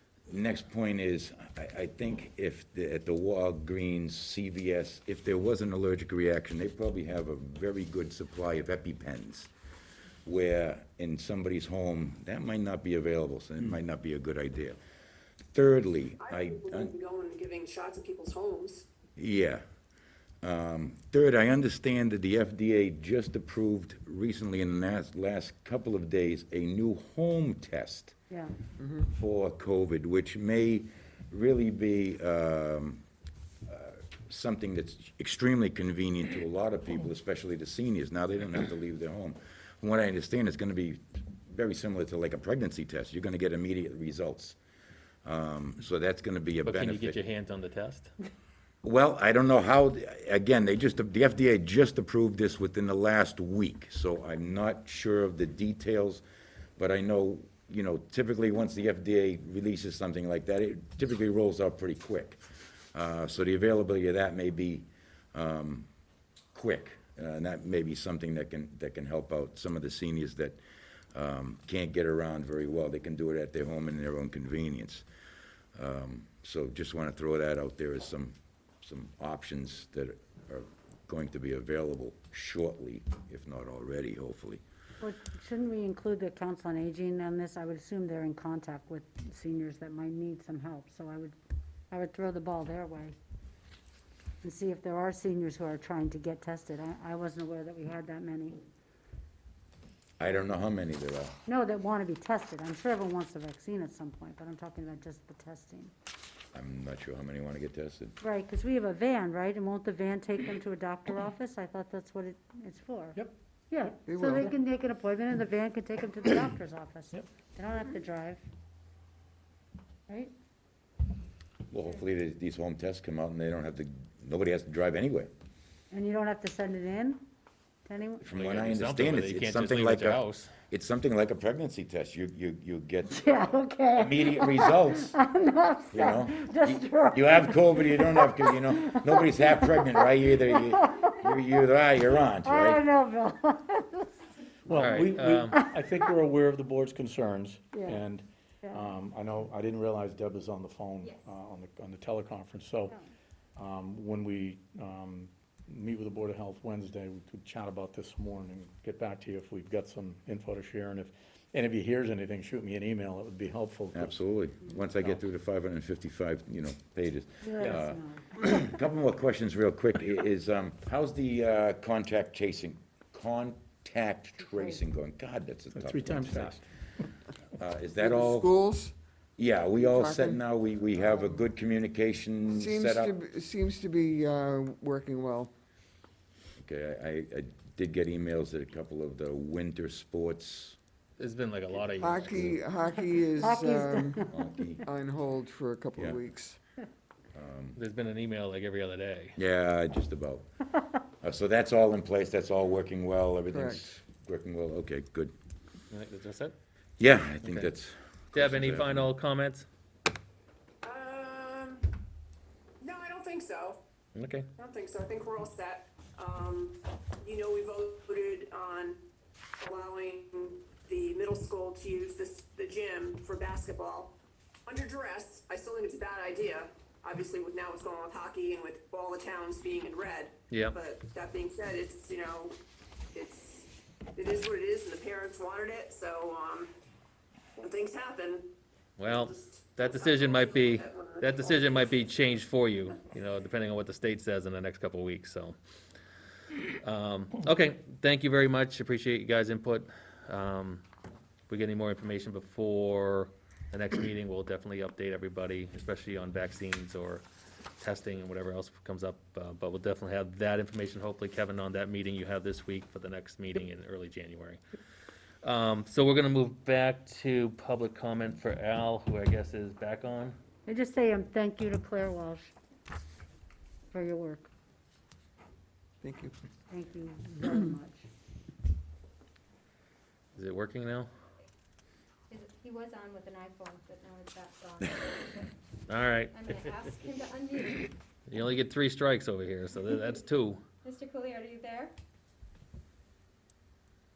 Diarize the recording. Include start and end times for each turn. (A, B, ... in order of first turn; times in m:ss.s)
0:00.3-0:09.5 A
0:10.2-0:14.8 A
0:15.5-0:16.9 A
0:16.2-0:18.8 B
0:19.2-0:19.6 A
0:20.4-0:28.2 A
0:28.3-0:28.5 C
0:29.1-0:33.0 A
0:33.7-0:44.6 A
0:45.2-0:47.2 A
0:46.6-0:48.1 D
0:48.8-0:56.2 A
0:56.8-1:02.4 A
1:02.9-1:05.9 A
1:06.5-1:10.6 A
1:11.1-1:15.0 A
1:15.8-1:24.6 A
1:25.0-1:31.4 C
1:31.9-1:33.2 C
1:34.4-1:38.6 C
1:40.2-1:41.4 A
1:41.4-1:45.9 C
1:46.5-1:48.1 A
1:48.2-1:53.2 C
1:53.7-1:58.4 C
1:54.1-1:54.5 E
2:00.1-2:00.3 C
2:01.7-2:05.3 A
2:05.9-2:07.2 C
2:07.8-2:08.2 C
2:08.2-2:13.3 A
2:08.3-2:10.5 D
2:13.1-2:21.3 C
2:14.0-2:15.1 A
2:15.9-2:22.8 A
2:22.4-2:24.1 C
2:24.7-2:33.0 F
2:24.8-2:25.6 D
2:27.7-2:28.0 C
2:33.6-2:44.1 F
2:43.9-2:56.6 A
2:47.4-2:48.2 C
2:55.7-2:56.6 F
2:57.5-2:58.5 A
2:58.0-2:58.9 E
2:59.4-3:03.1 A
2:59.8-3:00.4 E
3:01.0-3:01.3 E
3:02.5-3:05.5 E
3:06.6-3:10.8 A
3:11.2-3:12.6 D
3:12.0-3:14.2 E
3:13.4-3:14.6 C
3:14.3-3:14.8 A
3:14.8-3:16.6 E
3:17.3-3:17.8 A
3:17.8-3:19.4 D
3:19.4-3:20.4 A
3:21.2-3:25.3 A
3:23.5-3:24.0 E
3:25.9-3:26.5 D
3:27.0-3:29.1 A
3:27.4-3:27.7 D
3:28.3-3:29.7 D
3:30.8-3:31.9 B
3:32.8-3:33.8 B
3:34.1-3:34.5 D
3:34.6-3:39.0 B
3:39.6-3:52.6 B
3:50.5-3:50.8 D
3:53.1-3:56.7 B
3:57.6-3:58.5 B
3:59.0-4:05.6 D
3:59.1-4:01.2 B
4:06.8-4:10.8 D
4:11.5-4:17.2 D
4:17.8-4:24.6 D
4:25.4-4:30.4 D
4:30.6-4:32.5 C
4:33.9-4:34.5 C
4:36.0-4:36.3 E
4:36.7-4:38.0 C
4:40.4-4:41.1 D
4:42.3-4:45.5 G
4:45.9-4:46.7 D
4:46.3-4:47.9 G
4:48.3-4:50.6 D
4:50.8-4:51.9 G